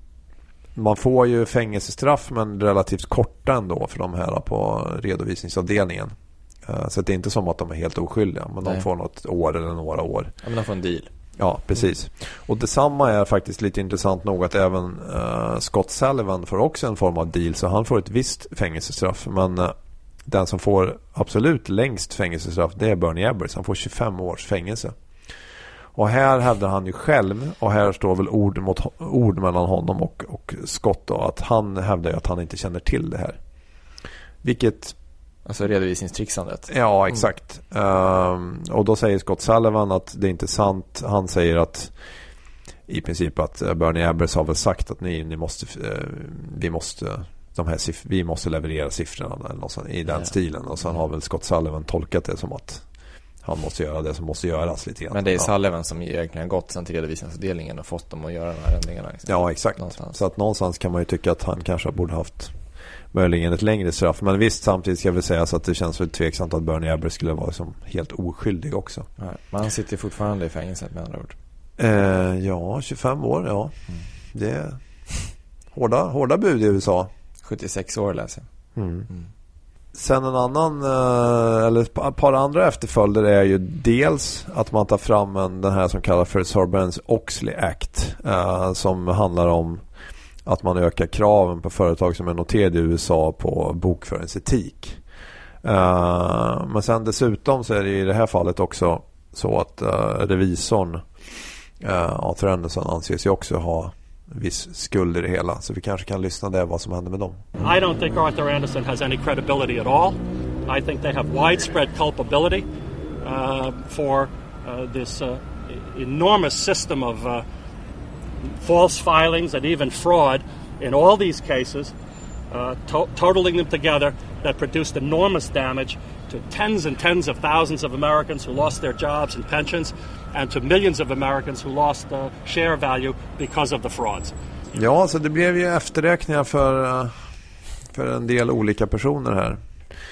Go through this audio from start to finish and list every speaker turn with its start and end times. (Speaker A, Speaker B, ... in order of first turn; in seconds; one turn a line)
Speaker A: 0.8-6.1
Speaker A: 6.7-10.3
Speaker B: 10.4-11.1
Speaker A: 11.4-19.8
Speaker A: 20.3-24.9
Speaker A: 25.9-33.4
Speaker A: 34.4-35.0
Speaker B: 35.5-37.1
Speaker A: 36.7-41.9
Speaker A: 42.9-52.8
Speaker A: 53.4-55.5
Speaker B: 55.1-60.2
Speaker A: 59.3-62.5
Speaker A: 63.1-69.1
Speaker B: 69.2-71.4
Speaker A: 71.8-73.7
Speaker A: 74.3-74.8
Speaker A: 75.7-77.1
Speaker B: 77.4-78.5
Speaker A: 78.8-79.1
Speaker A: 79.9-89.8
Speaker A: 90.5-95.0
Speaker A: 95.6-101.1
Speaker A: 101.8-107.4
Speaker C: 107.6-112.7
Speaker C: 113.2-117.5
Speaker C: 118.6-121.9
Speaker C: 122.5-134.3
Speaker A: 134.8-137.2
Speaker A: 137.9-139.6